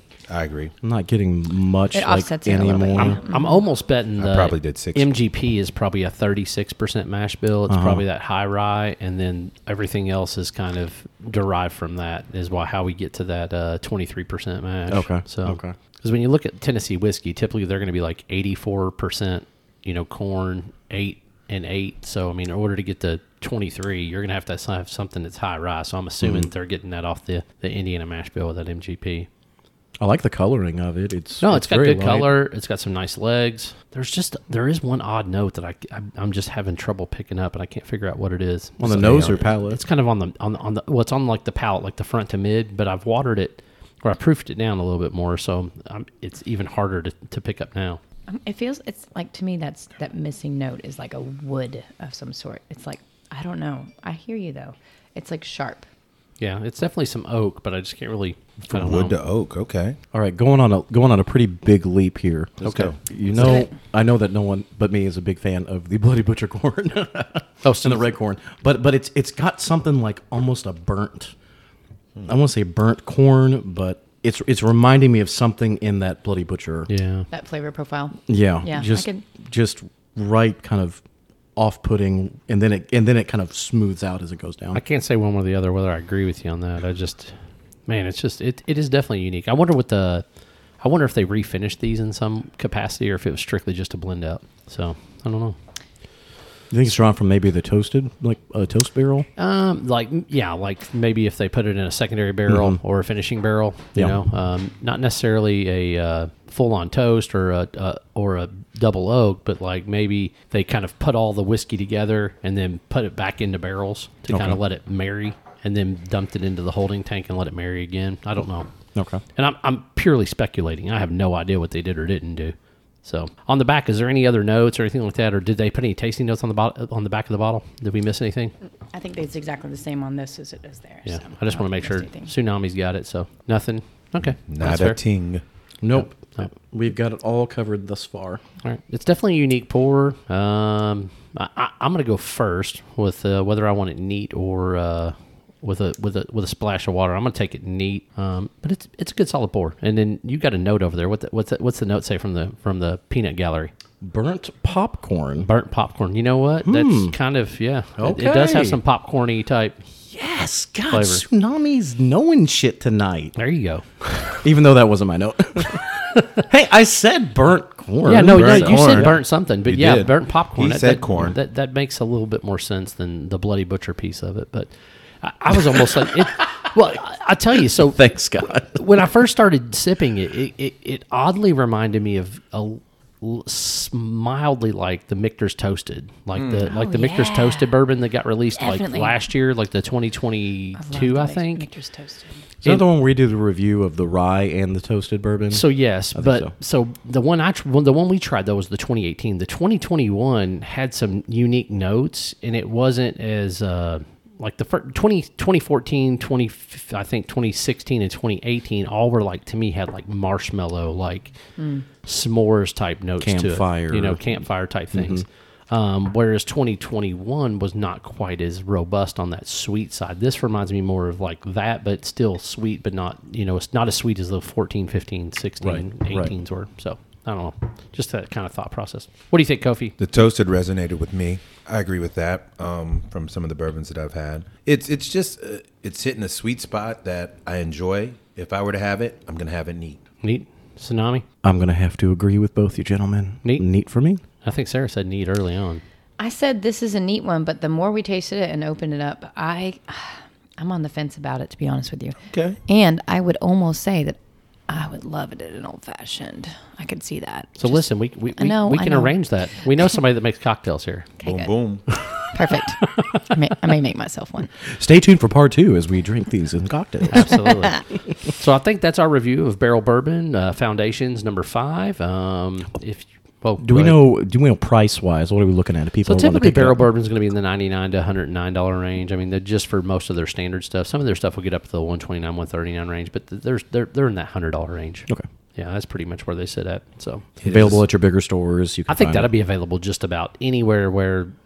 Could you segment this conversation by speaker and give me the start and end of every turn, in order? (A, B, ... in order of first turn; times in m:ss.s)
0:00.3-0:00.7 A
0:00.8-0:03.2 B
0:01.9-0:03.6 C
0:03.0-0:29.3 D
0:04.2-0:05.1 A
0:07.7-0:08.0 B
0:14.9-0:15.7 B
0:26.2-0:26.5 B
0:30.0-0:32.3 B
0:31.4-0:48.0 D
0:38.8-0:39.8 B
0:38.8-0:39.5 A
0:48.3-0:55.9 C
0:56.4-0:59.2 D
0:58.6-1:00.0 A
1:00.1-1:11.3 B
1:02.6-1:03.0 A
1:07.6-1:08.2 D
1:12.2-1:16.9 B
1:16.9-1:17.3 D
1:17.3-1:19.2 C
1:18.3-1:21.0 B
1:21.6-1:24.8 B
1:24.7-1:30.2 D
1:30.8-1:35.6 D
1:36.7-1:39.3 B
1:39.4-1:58.7 D
1:42.5-1:42.8 B
1:43.9-1:44.2 B
1:54.3-1:54.6 B
1:58.9-1:59.2 B
1:59.4-2:08.5 D
2:08.9-2:12.3 C
2:11.0-2:15.0 D
2:14.2-2:15.4 A
2:15.8-2:18.4 B
2:15.9-2:16.5 D
2:18.6-2:33.7 D
2:34.0-2:35.5 B
2:35.4-2:39.8 D
2:36.6-2:37.2 B
2:38.0-2:38.8 B
2:40.1-2:43.3 B
2:40.9-2:41.2 D
2:43.4-2:44.3 D
2:44.4-2:49.2 B
2:48.0-2:58.0 D
2:48.2-2:51.4 A
2:57.8-2:58.8 B
2:58.7-3:11.7 D
3:06.3-3:06.7 A
3:06.7-3:07.8 C
3:08.6-3:09.2 C
3:10.8-3:12.4 C
3:12.6-3:16.5 B
3:15.5-3:31.3 D
3:31.6-3:31.9 C
3:32.0-3:49.9 D
3:33.2-3:34.3 B
3:34.9-3:35.2 B
3:45.6-3:46.3 B
3:50.0-4:00.0 A
4:00.2-4:01.2 D
4:01.4-4:04.2 B
4:04.4-4:05.8 D
4:06.2-4:19.2 C
4:12.2-4:12.6 A
4:17.6-4:21.1 D
4:21.2-4:21.6 C
4:21.2-4:21.9 A
4:22.3-4:24.5 C
4:24.7-4:27.4 B
4:27.1-4:34.0 D
4:33.6-4:36.9 B
4:36.0-4:47.8 D
4:47.4-4:47.8 A
4:47.4-4:49.3 B
4:48.9-4:51.3 D